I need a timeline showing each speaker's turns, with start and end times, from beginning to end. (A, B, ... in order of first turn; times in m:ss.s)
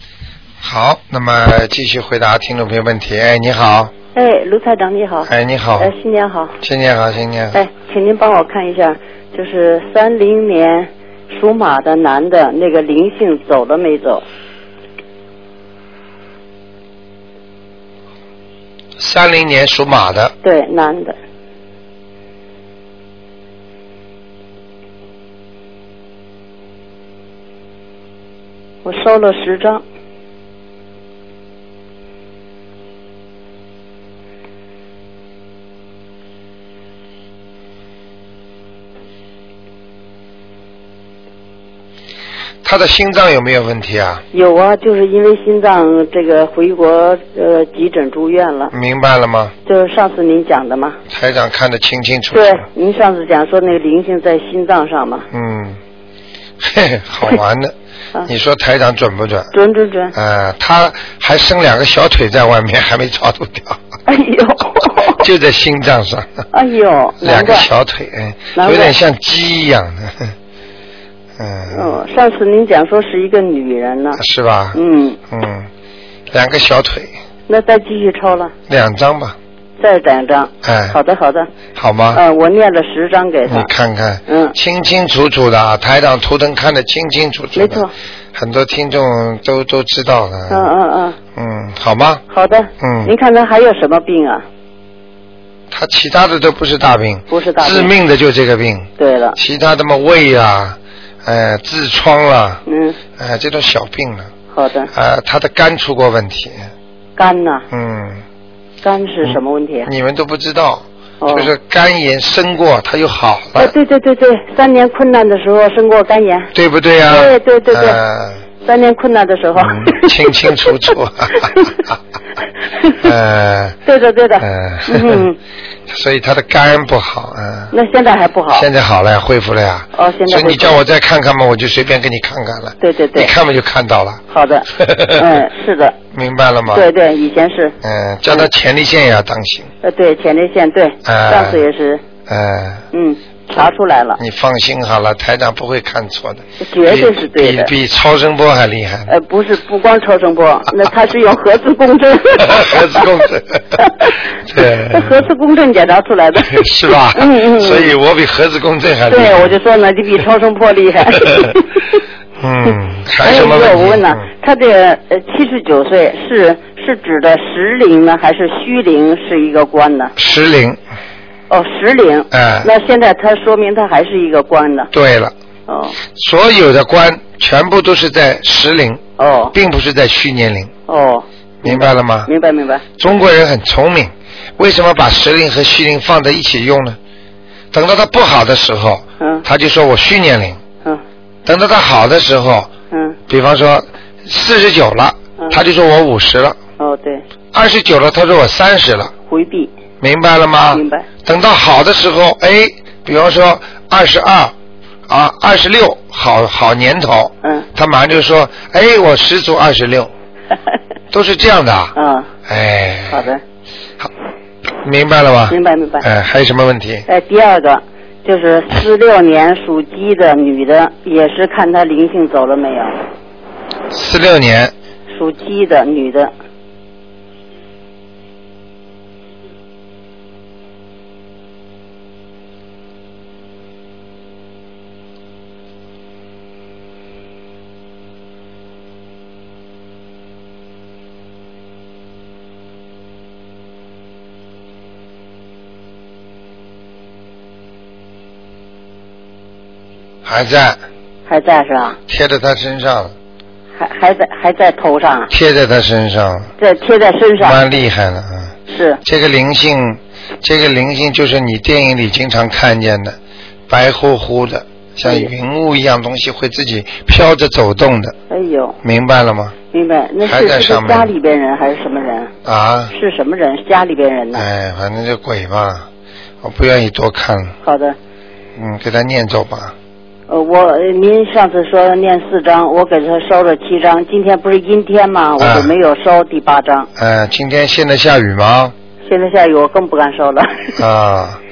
0:00.6-0:03.9 A
0:04.2-0:06.6 B
0:05.3-0:05.9 A
0:06.6-0:07.6 A
0:07.5-0:14.2 B
0:19.0-0:20.3 A
0:20.4-0:21.2 B
0:28.8-0:29.8 B
0:42.6-0:44.2 A
0:44.3-0:48.7 B
0:48.7-0:49.5 A
0:49.7-0:51.0 B
0:51.1-0:52.6 A
0:52.3-0:55.3 B
0:55.3-0:55.8 A
0:56.6-0:57.7 A
0:58.2-0:59.5 A
0:59.5-1:00.1 B
1:00.1-1:03.8 A
1:04.1-1:05.2 B
1:05.1-1:06.4 A
1:06.5-1:07.7 B
1:07.2-1:10.3 A
1:08.6-1:08.9 B
1:11.4-1:12.0 A
1:11.7-1:14.2 B
1:14.2-1:15.7 A
1:14.8-1:15.2 B
1:16.3-1:17.1 A
1:17.5-1:18.5 B
1:18.7-1:19.4 A
1:19.8-1:21.5 B
1:20.6-1:21.0 A
1:21.8-1:22.2 A
1:22.1-1:23.7 B
1:23.4-1:30.7 A
1:24.3-1:24.6 B
1:27.6-1:27.9 B
1:30.5-1:31.2 B
1:31.4-1:32.2 A
1:32.3-1:34.4 B
1:32.8-1:33.1 A
1:35.7-1:42.6 A
1:37.3-1:37.9 B
1:39.0-1:39.4 B
1:42.7-1:43.0 B
1:43.2-1:44.3 A
1:44.5-1:44.9 B
1:44.9-1:46.7 A
1:47.2-1:47.7 B
1:47.7-1:48.2 A
1:48.8-1:49.9 B
1:49.2-1:53.7 A
1:51.2-1:51.5 B
1:53.6-1:56.5 B
1:56.5-1:58.4 A
1:57.0-1:58.0 B
1:58.6-2:01.7 B
1:59.6-2:01.9 A
2:03.0-2:03.8 A
2:03.8-2:05.4 B
2:04.4-2:05.2 A
2:05.9-2:07.7 A
2:07.7-2:08.7 B
2:08.5-2:15.5 A
2:10.0-2:10.8 B
2:12.8-2:13.3 B
2:14.3-2:16.0 B
2:16.1-2:16.9 A
2:16.7-2:17.8 B
2:17.8-2:19.7 A
2:19.8-2:22.0 B
2:21.0-2:21.6 A
2:22.3-2:22.8 A
2:22.9-2:24.2 B
2:24.2-2:29.1 A
2:26.6-2:27.7 B
2:29.1-2:33.2 B
2:32.4-2:33.8 A
2:33.8-2:37.9 B
2:34.5-2:35.2 A
2:36.5-2:39.6 A
2:39.1-2:41.8 B
2:41.2-2:41.6 A
2:42.4-2:44.2 A
2:42.6-2:50.1 B
2:50.2-2:50.8 A
2:51.5-2:54.9 B
2:52.3-2:52.7 A
2:54.9-2:55.3 A
2:55.7-2:56.0 B
2:56.2-2:59.0 A
2:59.2-2:59.6 B
2:59.5-3:00.7 A
3:00.9-3:02.8 B
3:01.6-3:02.3 A
3:03.0-3:07.0 A
3:07.7-3:10.6 A
3:09.2-3:09.4 B
3:11.4-3:12.7 A
3:12.9-3:13.2 B
3:13.3-3:16.6 A
3:16.8-3:17.2 B
3:17.5-3:19.1 A
3:19.3-3:19.7 B
3:20.0-3:24.5 A
3:20.7-3:21.1 B
3:25.1-3:30.1 A
3:31.1-3:32.0 A
3:32.0-3:32.3 B
3:32.5-3:33.3 A
3:33.1-3:33.4 B
3:34.8-3:37.1 A
3:35.5-3:36.0 B
3:37.1-3:43.0 B
3:43.9-3:44.7 A
3:45.1-3:46.3 B
4:10.2-4:10.8 A
4:11.3-4:12.0 B
4:12.1-4:13.1 A
4:13.8-4:15.3 B
4:15.3-4:16.5 A
4:16.6-4:17.7 B
4:17.4-4:23.2 A
4:18.7-4:19.0 B
4:23.7-4:28.2 A
4:25.0-4:25.3 B
4:28.3-4:28.8 B
4:28.8-4:29.6 A
4:29.7-4:32.3 B
4:30.2-4:31.1 A
4:32.4-4:32.9 A
4:32.9-4:34.5 B
4:34.3-4:35.9 A
4:36.4-4:37.6 A
4:37.6-4:38.0 B
4:38.6-4:39.8 A
4:40.3-4:46.9 B
4:45.4-4:45.7 A
4:47.0-4:48.8 A
4:49.1-4:50.8 B
4:50.8-4:51.4 A